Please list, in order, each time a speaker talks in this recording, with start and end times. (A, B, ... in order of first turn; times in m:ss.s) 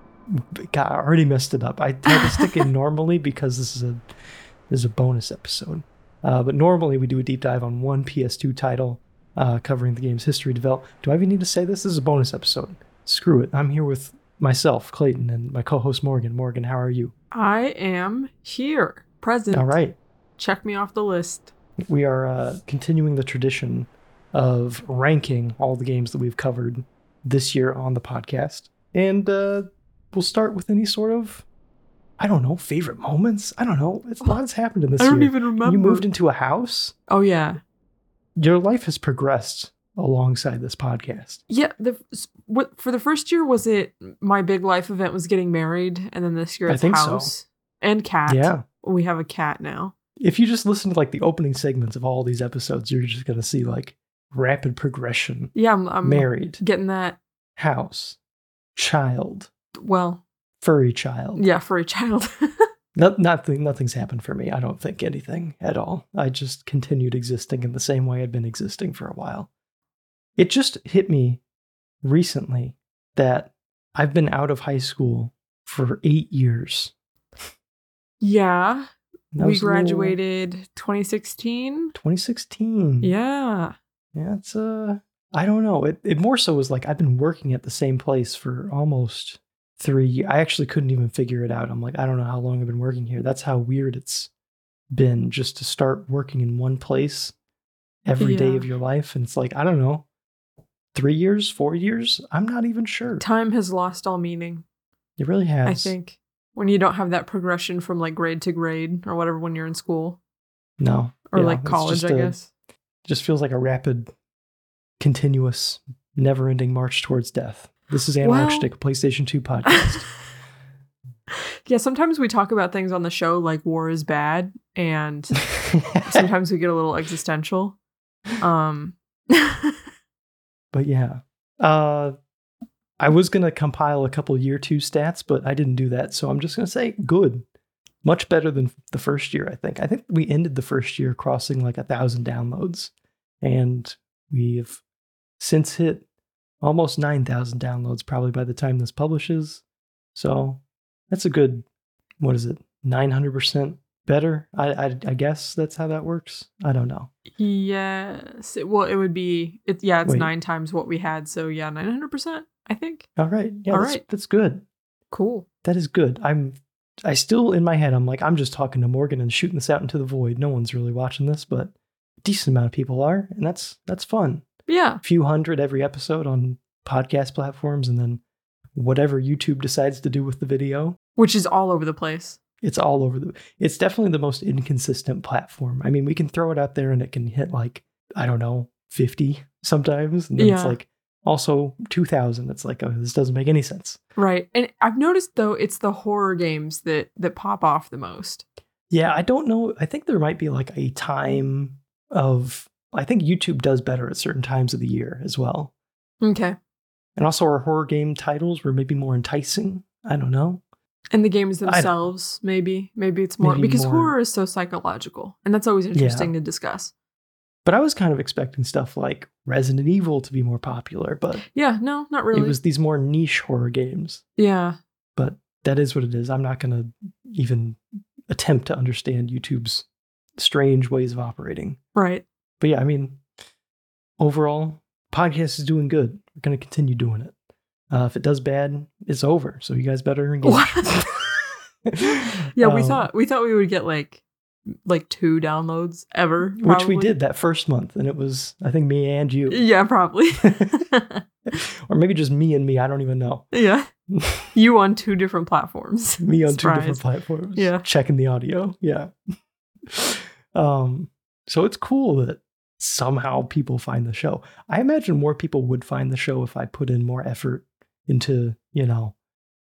0:00.3-0:04.0 A
0:02.1-0:02.5 B
0:04.7-0:17.1 A
0:17.3-0:19.8 B
0:19.5-0:20.0 A
0:20.4-0:21.5 B
0:21.8-0:31.4 A
0:32.2-0:36.9 A
0:35.0-0:36.1 B
0:37.1-0:37.6 B
0:38.4-0:41.4 A
0:41.5-0:49.9 B
0:46.7-0:47.3 A
0:48.3-0:48.6 A
0:50.2-0:56.6 A
0:55.5-0:57.2 B
0:57.6-0:58.2 A
0:58.8-0:59.5 A
0:59.8-1:00.2 B
1:00.6-1:01.4 A
1:01.4-1:02.7 B
1:02.9-1:09.5 A
1:10.4-1:11.4 A
1:12.0-1:16.9 A
1:18.2-1:21.9 B
1:19.3-1:20.2 A
1:21.9-1:23.1 A
1:23.0-1:23.7 B
1:24.1-1:34.3 A
1:34.9-1:37.3 A
1:38.0-1:40.0 A
1:38.2-1:38.7 B
1:40.9-1:43.2 A
1:43.2-1:44.6 B
1:45.2-1:45.9 A
1:45.6-1:50.2 B
1:50.8-1:52.4 A
1:51.3-1:52.5 B
1:53.0-1:54.1 A
1:55.0-2:00.0 A
1:58.2-1:58.7 B
1:59.8-2:00.0 B
2:01.6-2:05.4 B
2:05.6-2:06.3 A
2:06.0-2:07.8 B
2:08.4-2:09.8 B
2:10.7-2:12.1 A
2:13.0-2:17.4 A
2:18.0-2:24.8 A
2:25.4-2:26.0 A
2:26.6-2:29.6 A
2:30.1-2:31.6 A
2:32.2-2:37.1 A
2:37.3-2:43.1 B
2:40.0-2:40.3 A
2:43.2-2:44.6 A
2:43.7-2:44.0 B
2:45.1-2:45.4 B
2:45.6-2:54.4 A
2:54.7-2:55.0 B
2:55.0-2:58.2 A
2:58.7-3:01.0 A
3:01.2-3:02.4 B
3:02.6-3:14.0 A
3:10.4-3:10.8 B
3:14.2-3:18.4 B
3:18.9-3:25.7 A
3:26.2-3:26.6 B
3:27.2-3:30.6 A
3:31.1-3:36.9 B
3:31.6-3:31.9 A
3:33.4-3:34.1 A
3:35.9-3:36.3 A
3:37.6-3:41.4 A
3:41.4-3:42.6 B
3:42.3-3:44.2 A
3:44.4-3:44.8 B
3:45.2-3:49.8 A
3:50.4-3:51.8 A
3:51.9-3:52.2 B
3:52.6-3:53.2 A
3:54.2-3:57.3 A
3:57.9-4:01.2 A
4:00.4-4:01.0 B
4:01.9-4:03.1 A
4:02.6-4:04.2 B
4:04.8-4:07.1 B
4:06.6-4:09.6 A
4:09.5-4:11.2 B
4:10.4-4:10.8 A
4:11.5-4:13.4 A
4:13.5-4:13.9 B
4:14.1-4:14.5 A
4:14.5-4:17.0 B
4:16.2-4:19.1 A
4:17.6-4:17.8 B
4:19.9-4:29.1 A